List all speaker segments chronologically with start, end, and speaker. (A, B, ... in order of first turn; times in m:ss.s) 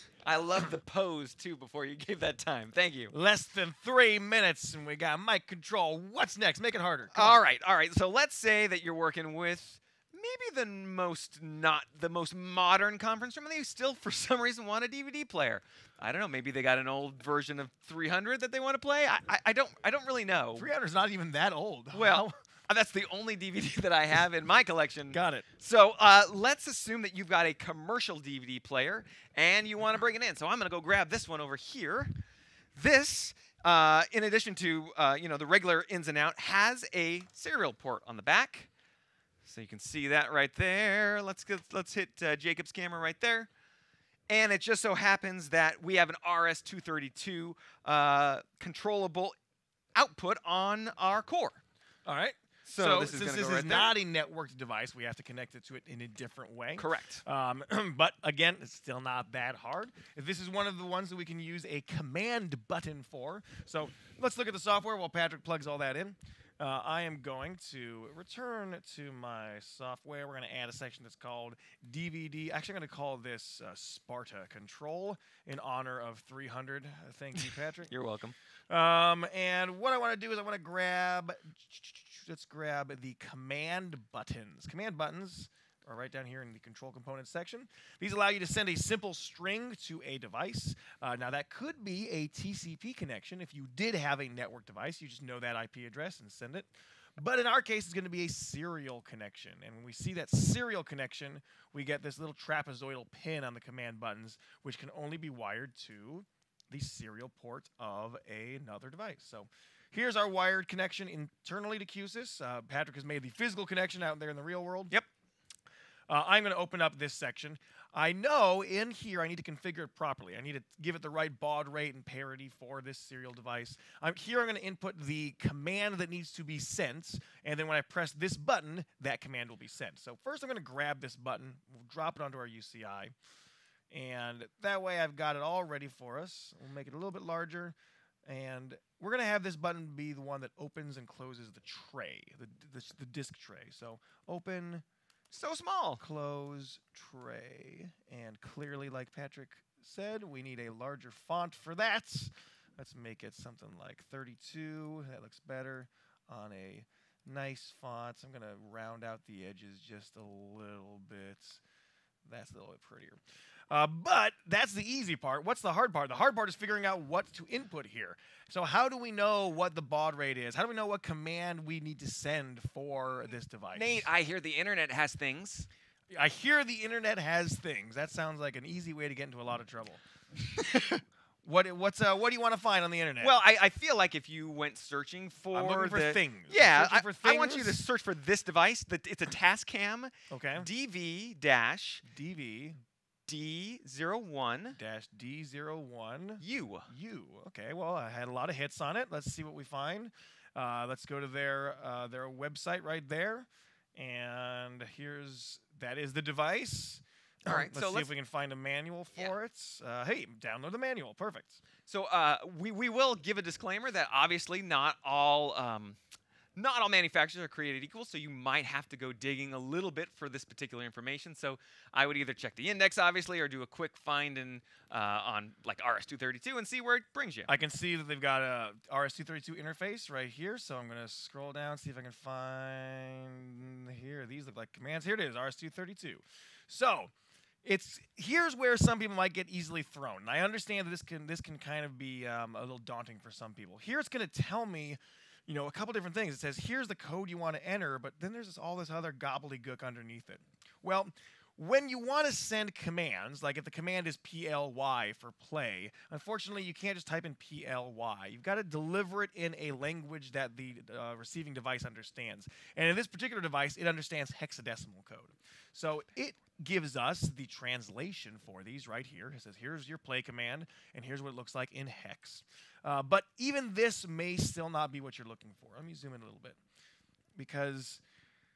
0:00.2-0:03.1 A
0:03.1-0:07.4 B
0:07.1-0:20.7 A
0:20.6-0:22.4 B
0:21.9-0:32.2 A
0:25.1-0:25.4 B
0:32.7-0:38.7 A
0:39.4-0:43.5 A
0:44.3-0:49.4 A
0:49.9-0:51.6 A
0:52.0-1:17.9 B
0:52.7-0:54.0 A
0:56.8-0:57.2 A
1:17.4-1:18.3 A
1:18.7-1:54.9 B
1:56.1-2:13.1 B
2:13.9-2:24.8 B
2:25.3-2:26.0 A
2:26.0-2:41.6 B
2:42.2-2:54.1 B
2:53.7-2:55.7 A
2:56.1-3:00.0 B
3:00.6-3:00.9 B
3:01.4-3:03.3 B
3:03.2-3:12.0 A
3:05.5-3:07.8 B
3:10.3-3:10.7 B
3:12.0-3:12.8 B
3:13.3-3:14.8 A
3:14.7-3:31.6 B
3:16.4-3:16.9 A
3:27.4-3:28.1 A
3:31.9-3:36.0 A
3:36.6-3:47.5 A
3:47.5-3:57.1 B
3:57.6-4:36.6 B
4:37.4-4:38.0 B